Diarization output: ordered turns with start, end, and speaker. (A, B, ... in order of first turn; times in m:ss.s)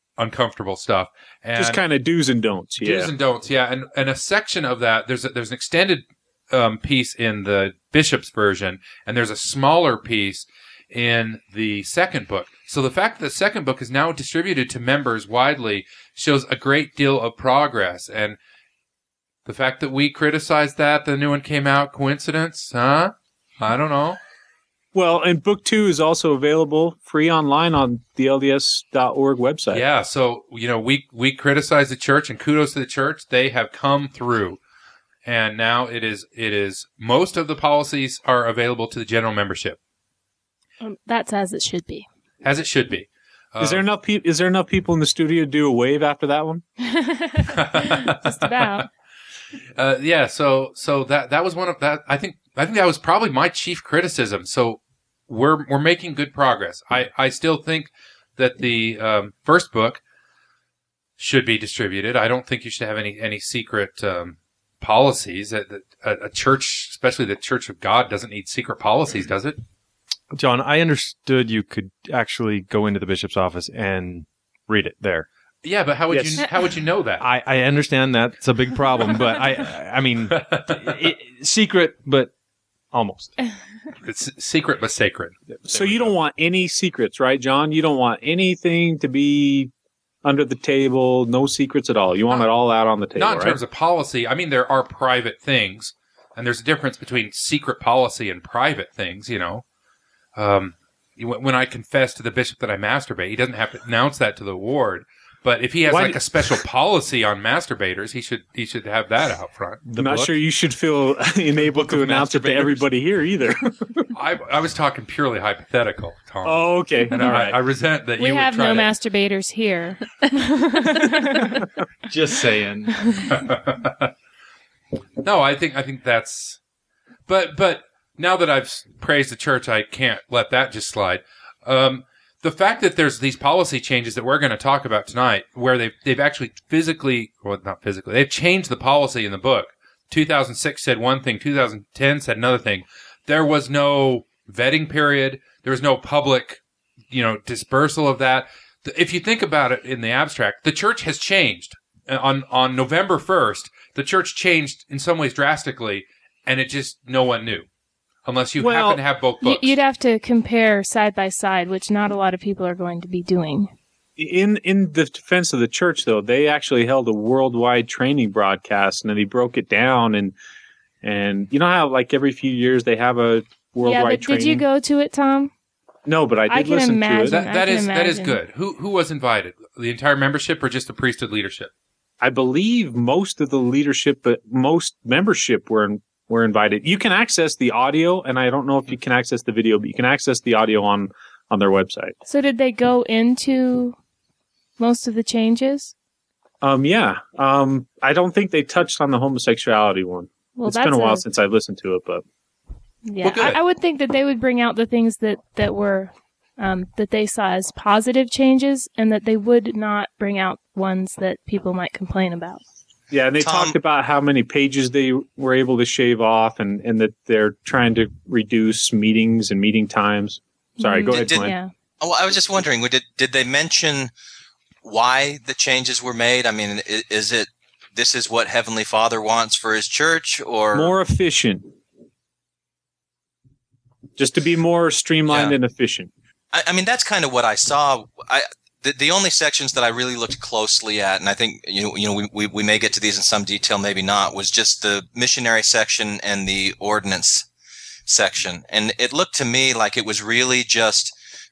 0:00.2-0:01.8 A
0:01.6-0:03.1 B
0:02.8-0:18.4 A
0:19.4-0:24.2 A
0:24.9-0:29.8 B
0:29.7-0:34.6 A
0:35.2-0:39.8 A
0:40.8-0:42.0 C
0:42.4-0:43.8 A
0:43.6-0:46.6 B
0:46.8-0:48.9 C
0:47.5-0:48.8 A
0:49.8-1:00.0 A
1:01.2-1:09.6 A
1:10.3-1:15.3 D
1:15.6-1:17.2 A
1:16.1-1:16.4 B
1:17.2-1:22.3 D
1:20.3-1:20.8 A
1:22.9-1:23.3 D
1:24.0-1:26.0 A
1:25.7-1:29.7 B
1:30.2-1:33.6 B
1:33.2-1:39.6 A
1:40.4-1:50.3 A
1:45.8-1:46.6 B
1:49.9-1:54.1 B
1:51.6-1:52.8 D
1:54.1-1:58.9 A
1:56.4-1:57.6 B
1:58.2-2:01.6 C
2:02.1-2:03.0 D
2:03.0-2:03.2 C
2:03.3-2:04.1 A
2:05.2-2:06.6 A
2:07.3-2:37.7 A
2:38.2-2:39.7 A
2:38.6-2:39.0 B
2:39.4-2:43.7 C
2:44.2-2:50.3 B
2:51.0-2:54.6 B
2:53.8-2:55.5 C
2:56.0-2:57.4 B
2:56.5-2:58.4 C
2:57.3-3:01.7 A
3:02.2-3:12.1 B
3:12.3-3:14.0 C
3:14.8-3:15.9 C
3:16.6-3:22.2 B
3:20.6-3:21.2 C
3:23.0-3:32.6 C
3:23.2-3:23.6 A
3:33.1-3:41.5 B
3:33.4-3:33.8 E
3:40.8-3:41.7 C
3:41.1-3:44.1 E
3:44.8-3:50.9 E
3:50.7-3:51.7 B
3:54.2-3:56.1 B
3:55.3-3:55.6 E
3:56.5-4:07.5 E
4:08.1-4:11.1 E